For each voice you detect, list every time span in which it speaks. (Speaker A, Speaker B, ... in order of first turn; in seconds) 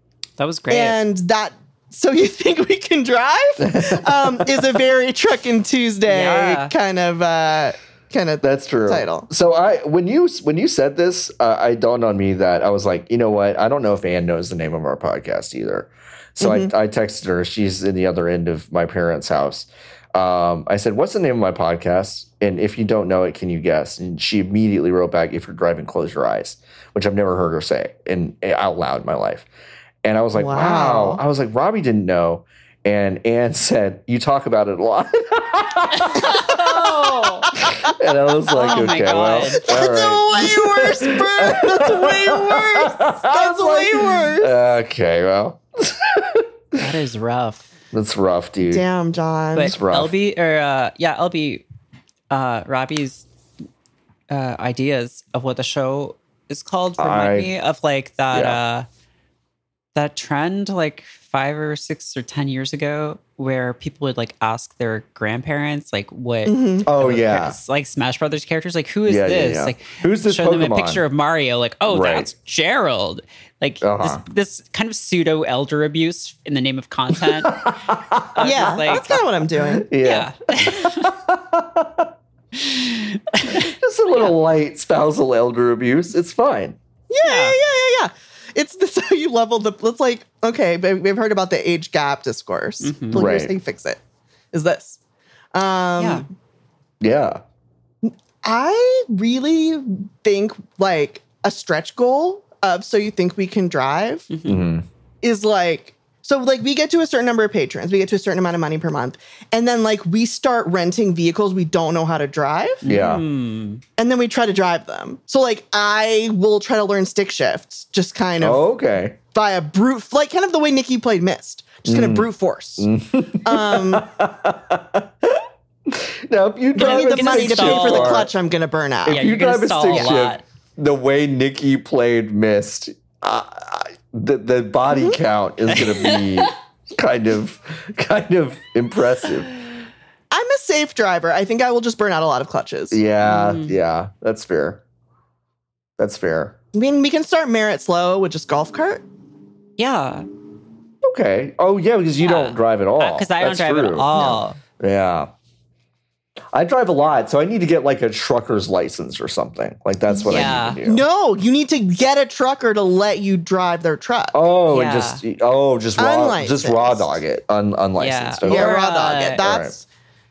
Speaker A: 0.4-1.0, 6.0-6.7, 35.9-37.5, 38.5-39.7, 46.8-47.7, 49.5-51.6, 52.3-53.2, 54.3-58.9, 59.9-77.8, 78.3-79.2, 80.0-81.2, 82.5-84.3, 87.2-87.6, 92.8-93.2, 96.0-96.2, 104.3-104.6, 112.8-113.8, 126.7-128.3, 129.1-130.4, 135.7-136.5, 143.2-143.8, 149.8-150.2, 152.2-154.6, 160.3-160.8, 164.7-165.2, 168.0-169.4
Speaker B: 0.7-9.3, 16.4-16.7, 30.4-31.2, 37.4-37.9, 38.6-39.0, 39.6-44.5, 48.6-49.7, 66.5-66.9, 78.4-79.9, 87.1-94.0, 94.5-95.0, 95.5-96.2, 98.0-104.3, 105.2-112.8, 114.0-118.6, 119.3-122.9, 123.4-124.0, 126.8-129.2, 129.9-130.1, 134.9-135.2, 140.3-143.0, 146.7-149.0, 160.8-164.3, 166.0-167.1, 168.4-169.8
Speaker C: 3.6-4.6, 8.4-29.5, 30.0-36.8, 37.6-46.8, 47.9-48.8, 49.6-50.1, 57.0-57.5, 58.3-58.6, 66.8-67.5, 69.1-71.0, 71.9-72.3, 73.8-74.2, 77.2-78.7, 79.7-82.1, 83.5-86.8, 93.1-93.5, 97.0-97.4, 104.5-104.8, 112.8-113.2, 118.4-119.2, 121.8-122.3, 122.8-128.3, 129.0-139.5, 142.9-144.8, 146.0-146.6, 151.0-154.1, 154.8-155.3, 156.5-161.0, 164.3-168.8, 169.4-169.7